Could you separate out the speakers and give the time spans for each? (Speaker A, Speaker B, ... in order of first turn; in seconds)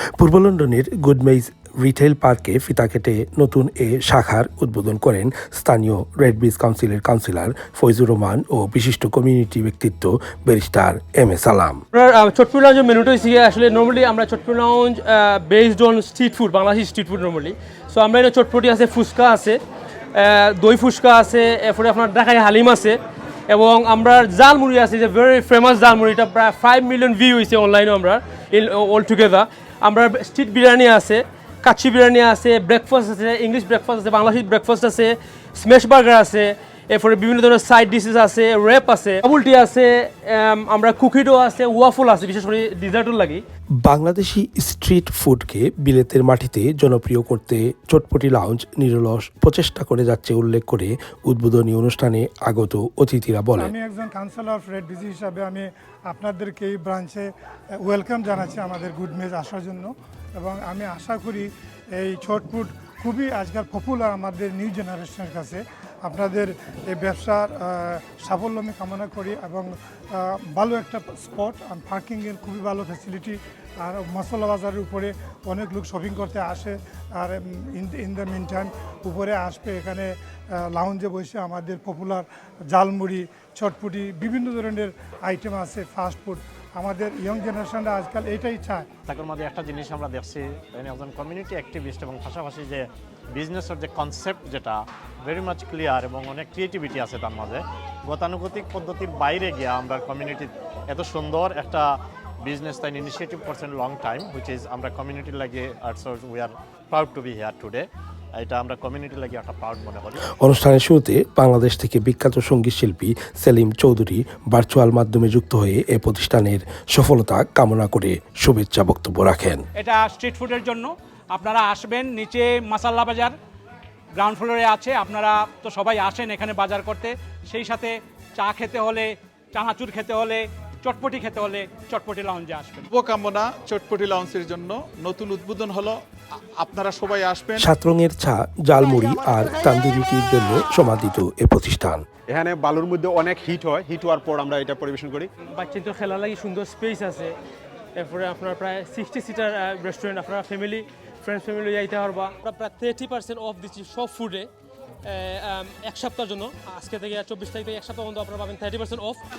Speaker A: 0.2-11.8, 43.8-53.7, 110.4-119.6, 137.6-142.0
Speaker B: 11.9-19.6, 20.1-43.4, 145.5-147.3, 147.9-154.5, 155.0-159.2
Speaker C: 53.5-88.9
Speaker D: 89.1-110.3
Speaker E: 119.8-123.3, 124.2-132.8
Speaker F: 132.9-136.0, 136.6-137.7
Speaker G: 142.3-145.3